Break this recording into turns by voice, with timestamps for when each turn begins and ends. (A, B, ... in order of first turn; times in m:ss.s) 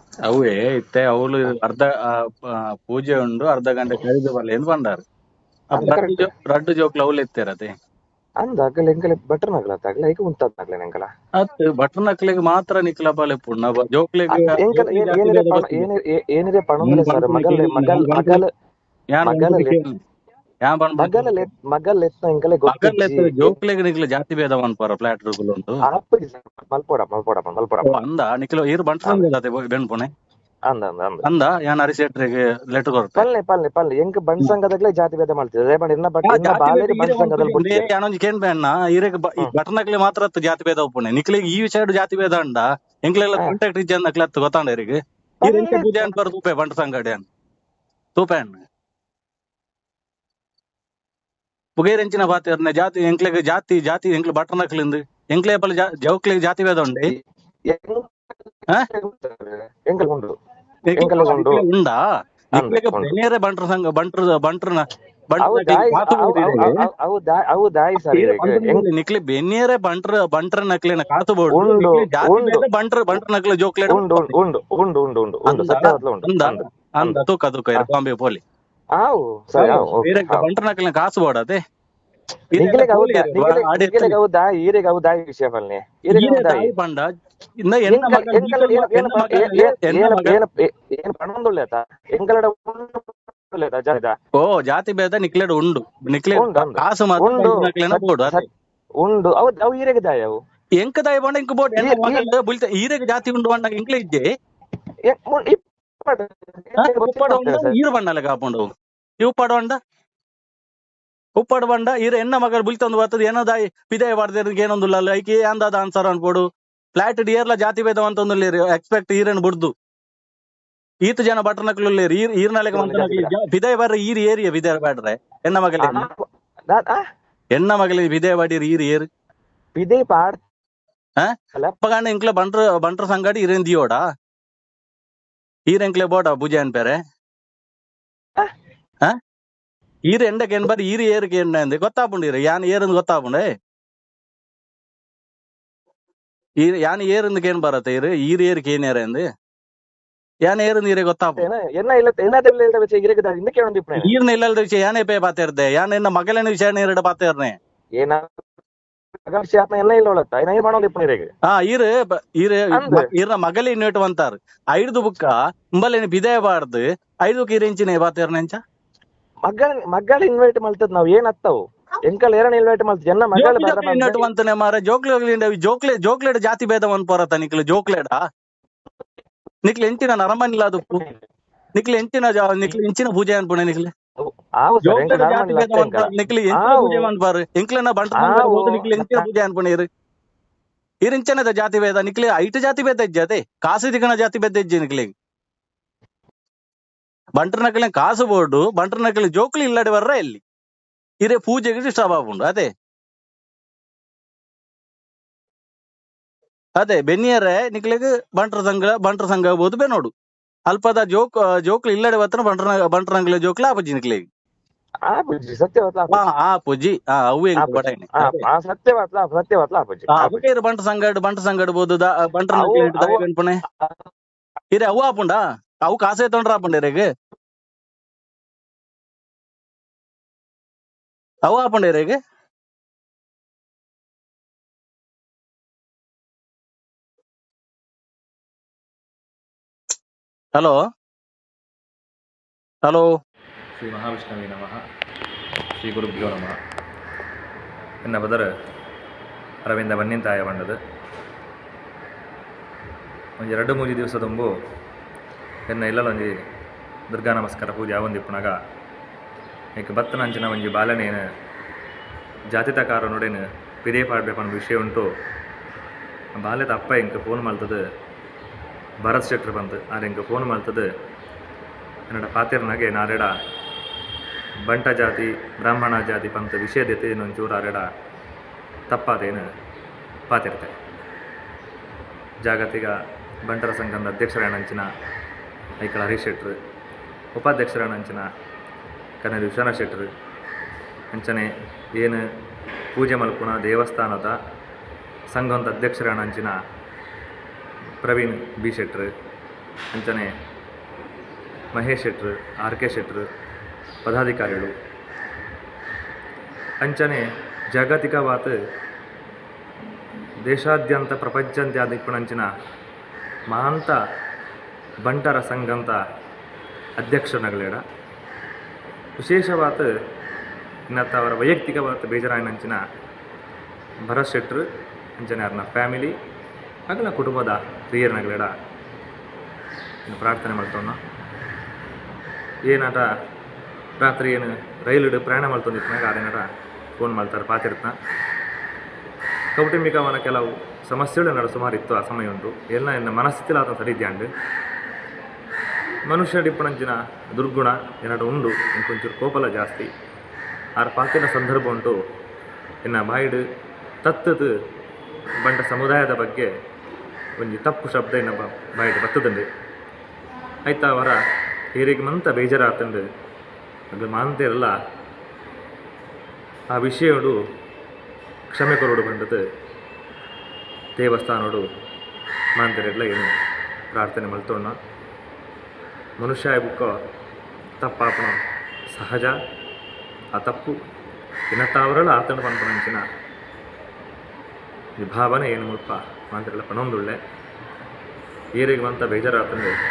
0:00.3-0:05.0 A
0:05.7-0:07.7 A
0:05.8-0:06.3 B
0:08.4-0:11.1 B
0:11.4-0:15.9 A
0:14.3-0:18.5 B
0:16.8-0:18.4 A
0:19.1-0:19.9 A
0:19.2-0:19.8 B
0:20.6-0:21.5 A
0:21.0-0:23.6 B
0:22.7-0:25.8 A
0:25.9-0:28.0 B
0:27.8-0:30.1 A
0:30.7-0:31.2 B
0:31.2-0:33.2 A
0:33.2-0:37.9 B
0:36.2-0:47.2 A
0:45.4-0:46.2 B
0:48.2-0:48.6 A
0:51.8-0:57.1 A
0:57.7-1:00.3 B
1:00.9-1:02.0 A
1:01.0-1:01.6 B
1:02.6-1:03.2 B
1:02.6-1:06.8 A
1:05.4-1:08.9 B
1:08.0-1:14.3 A
1:11.5-1:12.6 B
1:13.9-1:17.2 B
1:15.5-1:18.4 A
1:19.0-1:20.5 B
1:19.6-1:21.6 A
1:22.5-1:24.2 A
1:22.6-1:26.7 B
1:26.1-1:27.1 A
1:27.6-1:30.4 A
1:27.9-1:34.1 B
1:34.4-1:38.4 A
1:36.4-1:38.5 B
1:39.0-1:40.4 B
1:40.8-1:44.3 A
1:41.8-1:42.3 B
1:45.1-1:47.8 B
1:46.8-1:48.6 A
1:49.2-1:49.8 A
1:51.4-1:56.4 A
1:57.0-1:59.7 A
2:01.0-2:06.0 A
2:02.7-2:03.3 B
2:05.8-2:07.0 B
2:07.6-2:09.1 A
2:09.8-2:10.4 B
2:11.2-2:14.0 A
2:15.7-2:17.0 A
2:20.1-2:23.5 A
2:26.6-2:29.2 A
2:30.5-2:31.4 A
2:31.4-2:34.1 B
2:34.0-2:37.6 A
2:38.0-2:38.3 B
2:39.3-2:41.3 B
2:41.5-2:48.6 A
2:42.8-2:43.1 B
2:49.5-2:54.3 B
2:53.4-2:58.2 A
2:59.7-3:01.0 A
3:00.9-3:01.2 B
3:01.8-3:03.9 A
3:04.2-3:07.1 B
3:04.8-3:09.9 A
3:08.2-3:09.3 B
3:11.0-3:15.1 A
3:17.4-3:20.4 A
3:21.2-3:22.7 A
3:26.8-3:30.1 A
3:30.7-3:34.2 A
3:35.1-3:36.2 B
3:36.1-3:38.4 A
3:37.6-3:40.4 B
3:40.1-3:43.6 A
3:42.5-3:43.2 B
3:44.7-3:47.1 A
3:51.5-3:52.2 A
4:03.8-4:04.8 C
4:05.8-4:06.6 C
4:08.0-4:08.5 C
4:09.7-4:10.8 C
4:13.4-4:14.5 C
4:15.7-4:16.3 C
4:17.1-4:18.5 C
4:19.8-4:21.2 C
4:22.5-4:25.0 C
4:26.4-4:27.8 C
4:29.0-4:30.9 C
4:32.1-4:33.3 C
4:34.7-4:37.8 C
4:38.9-4:39.4 C
4:40.3-4:40.7 C
4:42.4-4:42.9 C
4:43.5-4:44.9 C
4:45.8-4:46.6 C
4:47.4-4:48.2 C
4:49.2-4:50.1 C
4:51.1-4:52.2 C
4:53.0-4:54.3 C
4:55.3-4:56.5 C
4:58.0-4:59.1 C
4:59.9-5:00.3 C
5:01.8-5:03.2 C
5:04.1-5:04.7 C
5:06.8-5:07.2 C
5:07.7-5:08.6 C
5:10.5-5:12.5 C
5:13.5-5:14.0 C
5:15.0-5:16.0 C
5:17.0-5:17.8 C
5:19.2-5:19.9 C
5:20.9-5:22.8 C
5:24.1-5:24.6 C
5:25.2-5:26.1 C
5:26.9-5:28.5 C
5:30.1-5:31.0 C
5:32.7-5:33.0 C
5:34.0-5:36.4 C
5:37.0-5:37.9 C
5:39.6-5:44.3 C
5:46.1-5:49.9 C
5:50.8-5:52.0 C
5:52.8-5:53.4 C
5:54.0-5:54.5 C
5:55.4-5:56.5 C
5:57.4-5:59.4 C
6:00.7-6:01.2 C
6:01.8-6:03.0 C
6:04.0-6:04.7 C
6:06.7-6:07.4 C
6:08.5-6:09.4 C
6:11.0-6:11.6 C
6:12.6-6:13.3 C
6:13.9-6:14.8 C
6:16.2-6:16.9 C
6:17.8-6:18.4 C
6:19.0-6:19.3 C
6:20.4-6:20.7 C
6:21.5-6:23.0 C
6:25.0-6:27.2 C
6:28.6-6:29.7 C